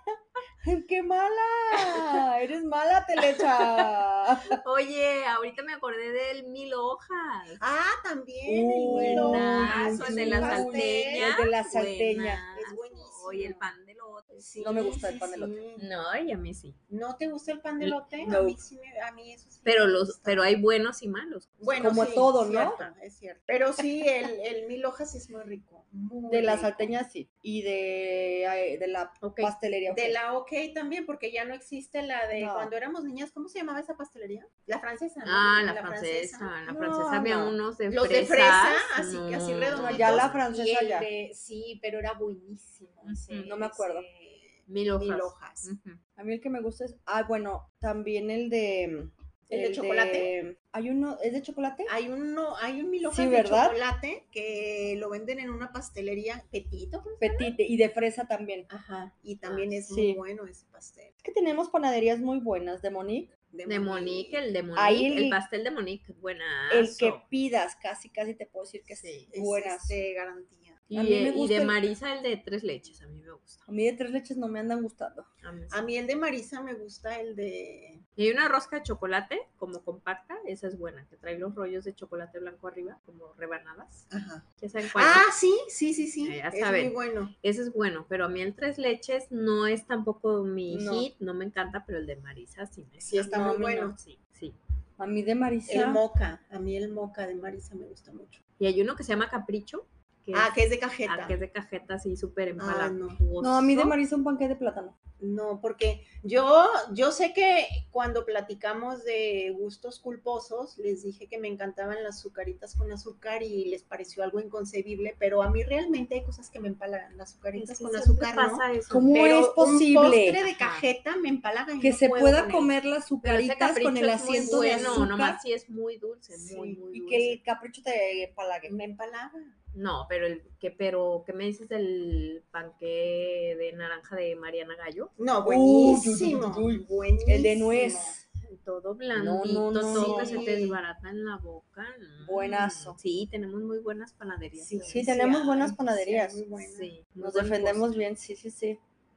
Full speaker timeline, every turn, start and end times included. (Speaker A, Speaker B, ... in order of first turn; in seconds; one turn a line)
Speaker A: 0.6-4.6
Speaker B: 1.7-2.2
Speaker B: 3.3-7.6
Speaker C: 7.6-11.3
Speaker A: 8.5-12.4
Speaker B: 8.9-14.8
Speaker C: 12.5-13.7
Speaker C: 14.4-15.8
Speaker A: 14.6-15.6
Speaker B: 15.8-16.8
Speaker C: 16.9-20.5
Speaker B: 17.8-18.4
Speaker A: 18.2-18.6
Speaker B: 19.6-21.6
Speaker C: 21.6-27.0
Speaker A: 21.8-22.9
Speaker A: 26.3-30.2
Speaker B: 29.2-29.5
Speaker C: 29.9-36.5
Speaker A: 32.4-32.7
Speaker B: 35.2-40.4
Speaker A: 36.7-37.5
Speaker C: 37.9-45.7
Speaker A: 39.7-41.1
Speaker B: 43.0-43.5
Speaker A: 43.4-44.0
Speaker B: 44.7-46.0
Speaker A: 46.2-51.9
Speaker C: 49.5-50.3
Speaker C: 51.9-57.5
Speaker A: 53.1-53.8
Speaker A: 57.2-58.7
Speaker C: 58.7-61.1
Speaker B: 59.4-59.8
Speaker A: 59.9-60.2
Speaker A: 61.2-63.3
Speaker C: 63.5-64.4
Speaker B: 63.7-67.2
Speaker A: 64.8-65.4
Speaker A: 66.7-70.0
Speaker B: 69.0-69.3
Speaker C: 69.3-70.8
Speaker B: 70.9-73.6
Speaker A: 70.9-71.8
Speaker A: 73.7-75.3
Speaker B: 75.4-75.8
Speaker C: 75.7-78.0
Speaker B: 78.2-84.1
Speaker C: 84.1-87.3
Speaker B: 84.6-85.2
Speaker B: 86.2-94.6
Speaker A: 90.7-91.1
Speaker C: 93.0-94.0
Speaker A: 93.2-93.9
Speaker A: 95.0-96.0
Speaker C: 95.7-98.4
Speaker B: 98.6-104.0
Speaker C: 100.3-101.4
Speaker C: 102.6-103.2
Speaker A: 103.4-104.9
Speaker C: 105.2-122.8
Speaker B: 117.5-119.1
Speaker A: 118.9-120.4
Speaker B: 120.4-120.9
Speaker A: 121.8-125.4
Speaker B: 123.2-127.4
Speaker C: 124.3-125.1
Speaker C: 126.3-126.8
Speaker A: 126.9-128.7
Speaker C: 128.6-129.5
Speaker B: 129.7-135.1
Speaker C: 135.2-138.2
Speaker A: 135.4-138.2
Speaker B: 138.4-145.2
Speaker A: 139.1-140.5
Speaker C: 139.9-140.8
Speaker A: 142.2-143.0
Speaker C: 144.6-146.9
Speaker A: 144.8-146.4
Speaker B: 146.6-147.9
Speaker A: 147.2-148.8